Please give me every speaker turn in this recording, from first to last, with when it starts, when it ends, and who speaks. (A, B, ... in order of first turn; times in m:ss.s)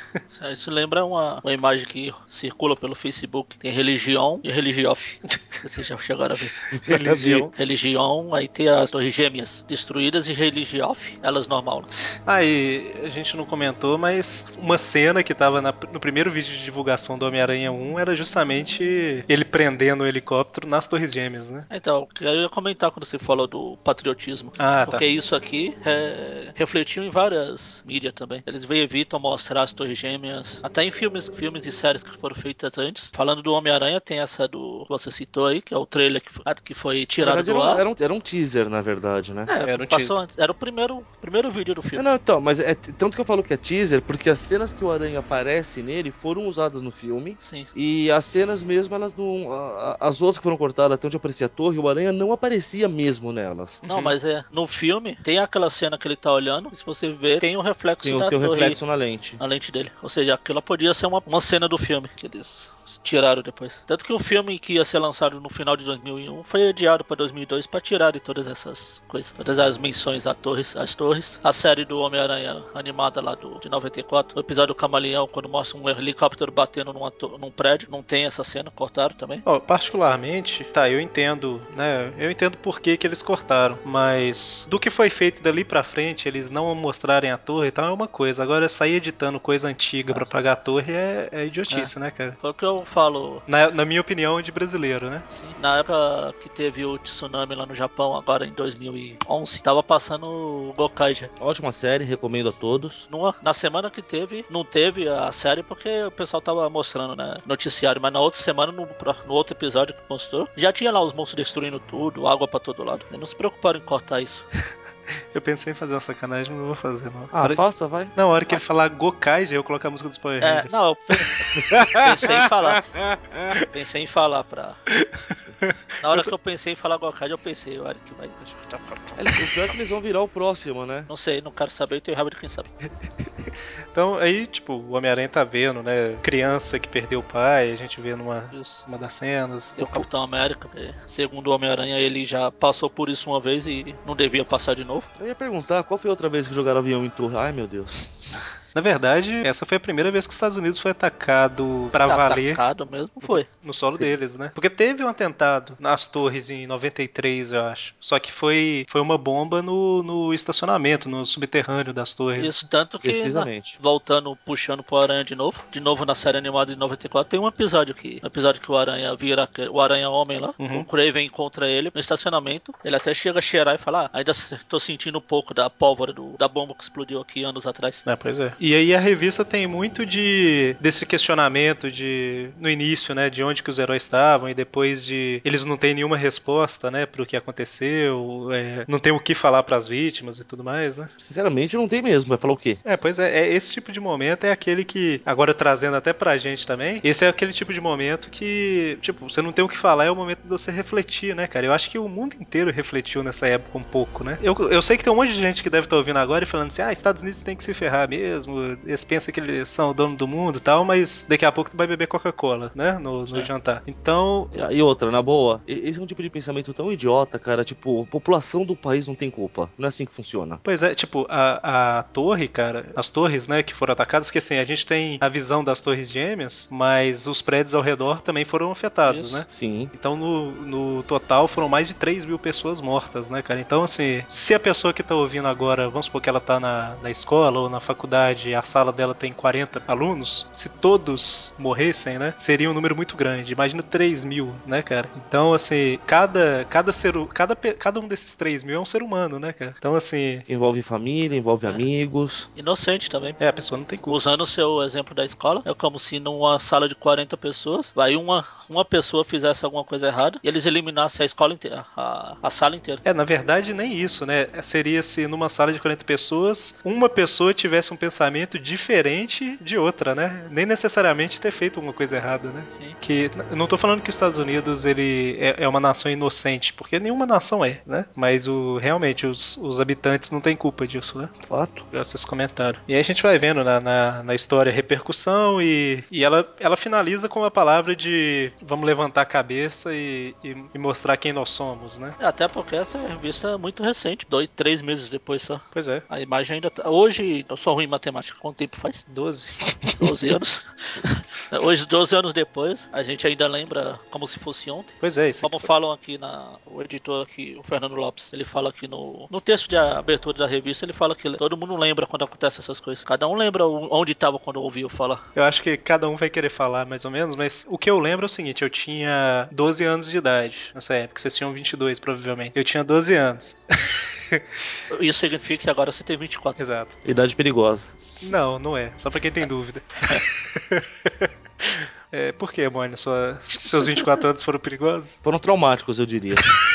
0:00.3-0:06.6 A
0:06.7-0:07.5 B
0:06.8-0:07.5 C
0:07.6-0:11.9 A
0:12.0-0:21.7 C
0:21.7-0:37.8 A
0:24.6-0:25.0 C
0:37.2-0:39.5 B
0:39.5-0:42.1 A
0:39.6-0:40.2 C
0:42.0-0:53.8 B
0:47.4-0:47.7 A
0:53.8-0:54.1 C
0:53.9-0:58.8 A
0:58.0-0:59.4 B
0:59.4-1:19.4 A
1:19.5-1:32.4 C
1:31.7-1:33.5 A
1:33.5-1:35.2 C
1:35.3-1:41.3 A
1:41.4-1:43.1 B
1:43.1-1:54.4 A
1:55.3-1:57.6 C
1:57.3-1:58.1 B
1:58.2-2:01.6 C
2:00.4-2:02.8 A
2:01.6-2:03.5 B
2:03.7-2:04.8 A
2:04.9-2:06.3 C
2:06.0-2:09.2 A
2:09.2-2:11.1 B
2:11.1-2:12.7 A
2:13.9-2:20.1 C
2:18.5-2:18.8 A
2:19.8-2:25.1 A
2:25.2-2:28.0 B
2:28.8-2:32.6 C
2:32.1-2:33.5 A
2:33.2-2:42.6 C
2:42.4-2:58.0 A
2:43.0-2:43.8 B
2:50.6-2:50.9 C
2:58.1-3:11.1 C
3:11.2-3:12.8 B
3:12.8-3:34.6 C
3:34.5-3:40.6 B
3:40.6-4:10.4 C
3:49.1-3:49.4 A
3:49.5-3:49.9 B
4:10.5-4:12.5 B
4:12.6-4:13.4 A
4:13.4-4:14.2 C
4:14.1-4:23.0 A
4:23.0-4:41.3 C
4:41.4-4:41.9 B
4:41.9-4:52.2 C
4:52.2-4:59.0 A
4:55.7-4:56.0 C
4:59.1-4:59.9 C
4:59.9-5:15.2 A
5:05.0-5:05.7 C
5:15.4-5:24.4 C
5:24.9-5:26.6 A
5:26.6-5:27.0 C
5:27.0-5:27.9 B
5:28.2-5:35.2 C
5:35.2-5:36.4 B